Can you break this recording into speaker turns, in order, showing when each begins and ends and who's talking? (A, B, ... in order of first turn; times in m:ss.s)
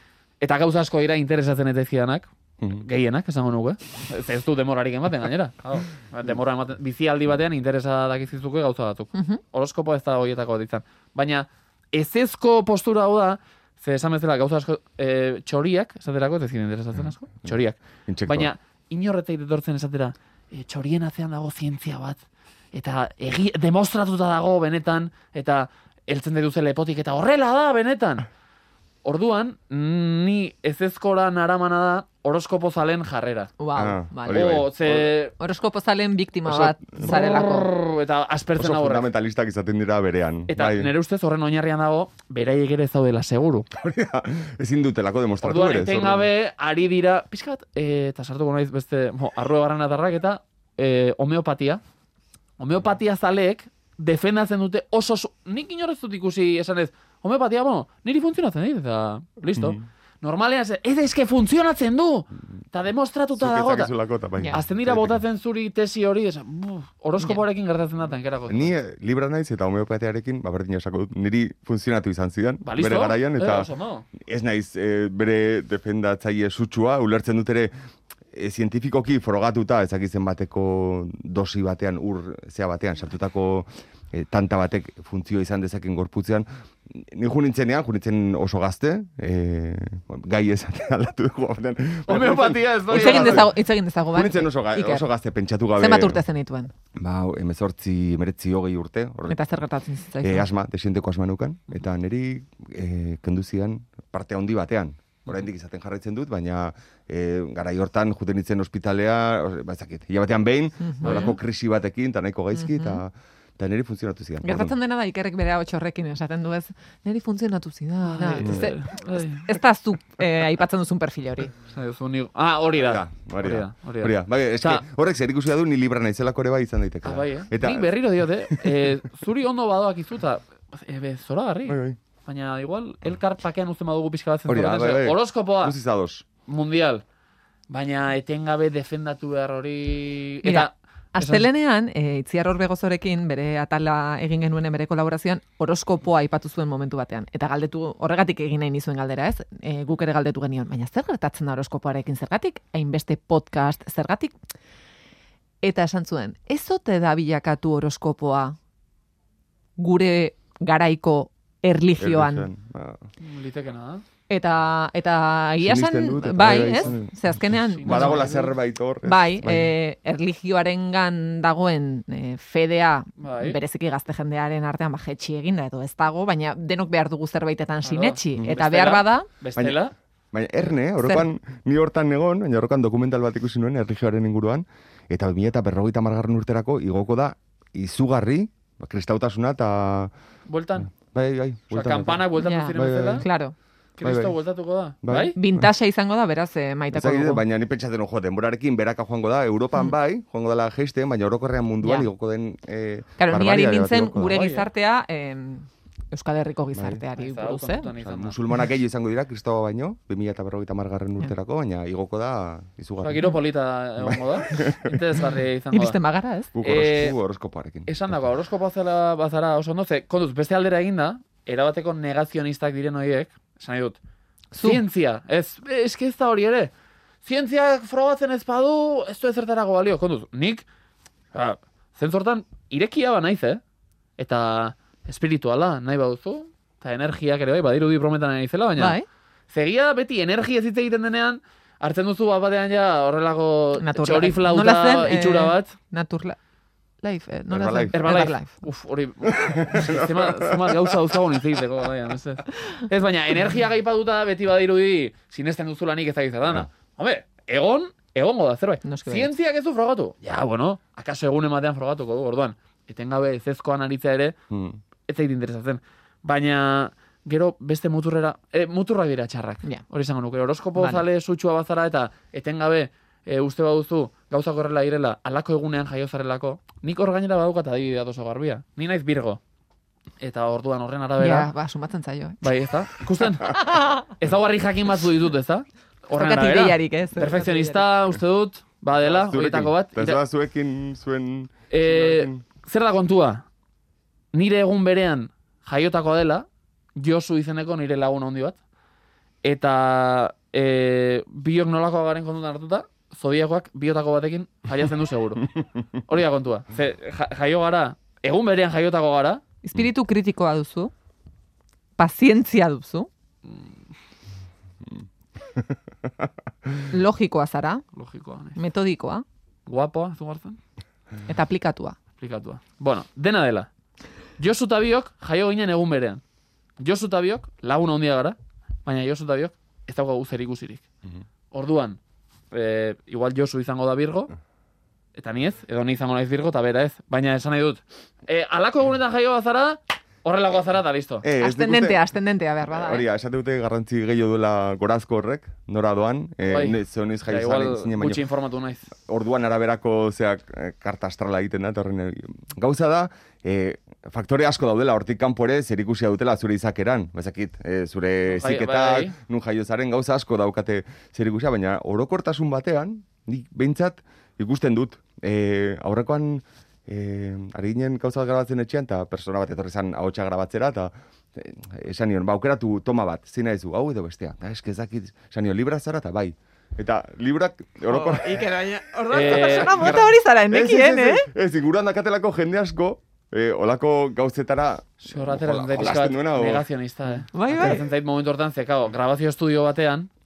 0:00.4-0:22.2 A
0:09.1-0:09.4 B
0:18.1-0:18.5 C
0:22.7-0:28.3 A
0:29.0-0:33.5 A
0:33.6-0:34.5 B
0:33.8-0:35.2 C
0:34.3-0:35.3 A
0:35.4-0:37.7 B
0:36.5-0:37.2 C
0:37.0-0:39.1 A
0:38.6-0:40.9 C
0:40.5-0:43.7 A
0:43.7-0:46.3 C
0:45.4-0:51.8 A
0:52.6-1:03.9 A
0:59.5-0:59.8 C
1:03.4-1:05.2 C
1:04.5-1:08.7 A
1:08.5-1:13.7 C
1:12.6-1:14.1 A
1:14.2-1:17.7 C
1:18.3-1:33.6 C
1:32.1-1:33.5 A
1:32.9-1:35.1 B
1:34.1-1:36.2 C
1:35.8-1:36.7 B
1:37.0-1:39.4 C
1:39.3-1:40.5 B
1:40.2-1:54.7 C
1:50.8-1:51.4 B
1:51.0-1:51.4 A
1:52.5-1:53.0 B
1:54.4-2:01.5 B
1:58.1-1:59.5 A
1:58.4-1:58.7 C
2:01.6-2:04.9 A
2:02.7-2:08.0 C
2:07.0-2:15.8 A
2:08.5-2:08.9 C
2:11.7-2:12.0 C
2:14.5-2:16.3 C
2:16.5-2:17.0 A
2:17.7-2:21.5 A
2:20.4-2:34.4 B
2:35.6-2:38.6 B
2:39.8-2:42.5 B
2:42.0-2:43.0 C
2:43.2-2:44.0 A
2:44.3-2:48.5 B
2:45.6-2:47.2 C
2:46.4-2:47.0 A
2:47.7-2:48.5 A
2:47.8-2:49.7 C
2:49.0-2:59.3 B
2:53.2-2:53.6 A
2:57.8-2:59.9 A
2:59.6-3:10.1 C
3:01.0-3:01.3 B
3:10.5-3:10.9 A
3:10.9-3:13.3 C
3:11.7-3:13.2 A
3:12.4-3:13.6 B
3:14.0-3:15.4 A
3:14.0-3:14.4 C
3:15.0-3:15.4 C
3:15.4-3:17.4 B
3:16.9-3:24.4 C
3:21.8-3:22.1 B
3:23.2-3:28.0 B
3:24.3-3:24.7 A
3:26.7-3:27.0 C
3:27.2-3:28.4 A
3:28.0-3:33.3 C
3:33.0-3:36.0 A
3:34.0-3:35.0 C
3:35.7-3:36.6 B
3:36.6-3:38.0 C
3:36.6-3:37.2 A
3:37.9-3:44.0 A
3:44.5-3:44.8 B
3:44.6-3:46.7 A
3:47.2-3:50.7 A
3:51.3-3:53.6 A
3:54.2-3:59.0 A
3:58.8-3:59.1 B
3:59.5-4:05.8 A
4:03.8-4:06.4 B
4:07.0-4:08.6 B
4:07.5-4:08.0 C
4:07.9-4:24.4 A
4:09.3-4:10.8 C
4:18.8-4:19.3 B
4:24.5-4:24.8 C
4:25.1-4:39.4 A
4:30.8-4:31.0 B
4:40.2-4:41.5 A
4:41.2-4:42.5 B
4:42.4-4:50.2 A
4:43.6-4:44.0 B
4:46.1-4:47.9 B
4:49.0-4:52.4 C
4:51.7-4:53.4 A
4:54.3-4:58.6 A
4:59.4-5:09.4 A
5:09.6-5:10.9 B
5:12.0-5:13.1 B
5:13.5-5:13.8 A
5:16.9-5:17.8 B
5:18.0-5:18.6 A
5:18.6-5:19.2 B
5:19.7-5:20.6 A
5:21.3-5:22.0 B
5:22.2-5:23.7 A
5:24.4-5:26.2 A
5:26.8-5:30.8 A
5:31.5-5:32.0 A
5:32.5-5:34.3 A
5:35.2-5:41.3 A
5:41.2-5:42.0 C
5:41.4-5:43.1 B
5:42.6-5:48.2 C
5:46.4-5:48.9 A
5:49.1-6:18.6 C
5:58.3-5:59.2 A
6:17.9-6:21.3 B
6:19.1-6:20.1 A
6:19.2-6:26.6 C
6:25.0-6:30.1 A
6:27.3-6:27.9 B